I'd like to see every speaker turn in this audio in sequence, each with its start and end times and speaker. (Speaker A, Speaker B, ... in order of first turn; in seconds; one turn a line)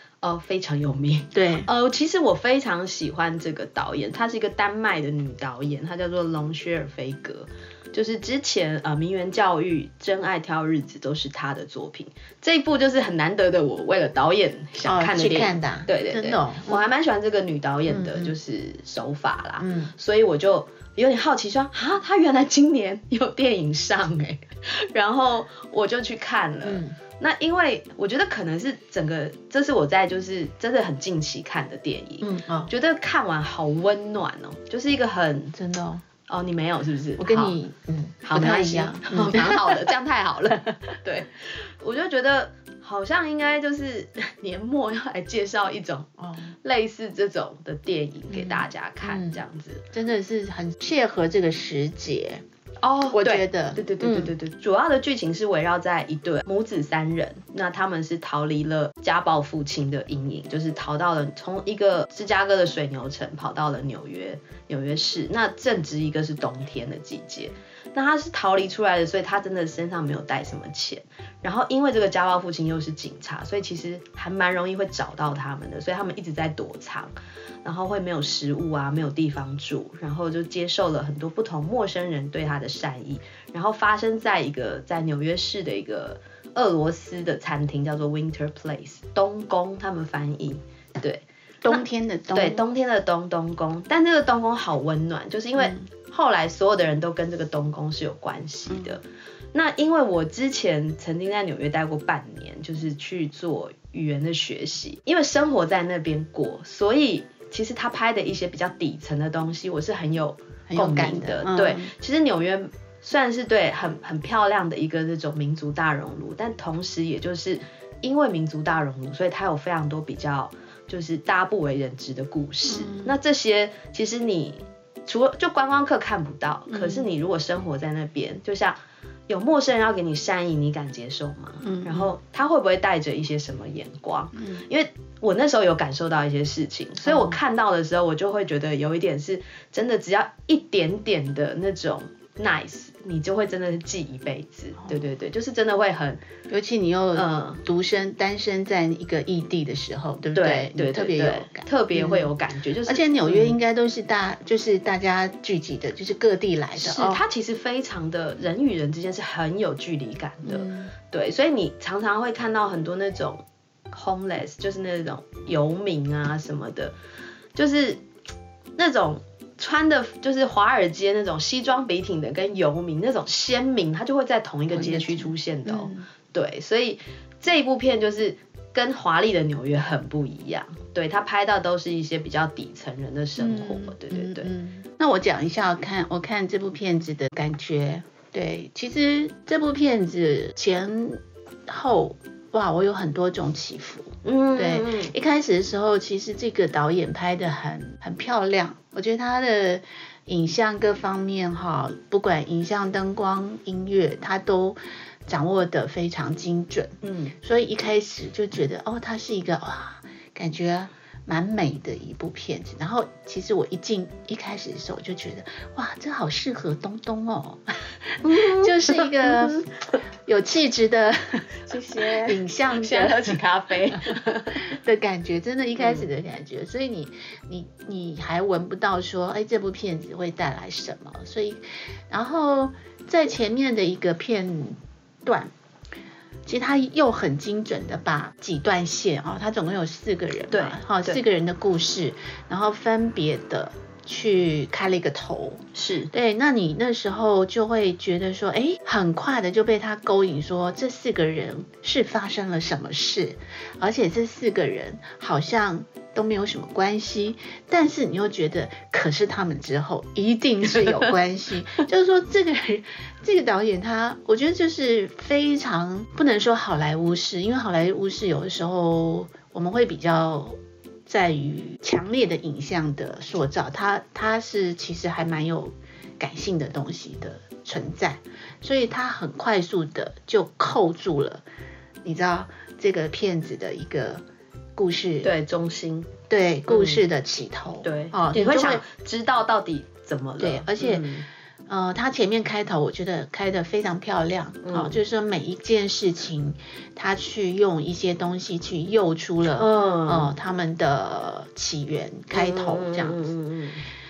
Speaker A: 0.2-35.5
Speaker B: 1.3-1.7
Speaker B: 14.8-16.8
Speaker B: 17.9-18.3
Speaker B: 19.6-19.9
Speaker B: 26.6-27.0
Speaker B: 32.2-32.7
Speaker B: 35.5-36.0
Speaker A: 36.3-37.6
Speaker B: 37.2-39.8
Speaker A: 38.2-46.1
Speaker B: 40.5-40.8
Speaker B: 46.2-46.5
Speaker A: 46.6-49.8
Speaker B: 48.3-52.4
Speaker A: 52.8-77.1
Speaker B: 53.1-54.3
Speaker A: 77.6-91.8
Speaker B: 91.6-92.6
Speaker A: 92.3-99.0
Speaker B: 95.6-95.8
Speaker B: 98.7-98.9
Speaker A: 99.5-128.8
Speaker B: 110.7-111.9
Speaker B: 122.7-123.1
Speaker B: 126.7-127.1
Speaker A: 129.3-146.2
Speaker B: 131.6-132.1
Speaker B: 137.0-137.4
Speaker B: 146.5-157.2
Speaker A: 147.1-147.6
Speaker A: 150.3-153.6
Speaker A: 156.8-166.9
Speaker B: 160.4-160.9
Speaker A: 167.5-168.0
Speaker A: 168.8-184.5
Speaker B: 174.7-176.0
Speaker B: 183.4-219.7
Speaker A: 194.2-195.1
Speaker A: 207.0-207.3
Speaker A: 218.2-219.7
Speaker B: 220.2-221.6
Speaker A: 221.7-224.7
Speaker B: 222.2-223.4
Speaker B: 223.9-235.5
Speaker A: 225.8-226.1
Speaker B: 236.4-281.4
Speaker A: 240.5-241.2
Speaker A: 245.7-246.1
Speaker A: 260.8-261.1
Speaker B: 282.0-284.2
Speaker B: 284.8-285.3
Speaker A: 285.2-286.1
Speaker B: 286.3-288.8
Speaker A: 286.7-287.0
Speaker A: 287.8-291.2
Speaker B: 290.4-291.1
Speaker B: 291.7-303.3
Speaker A: 294.6-295.0
Speaker A: 299.5-300.3
Speaker A: 302.3-303.8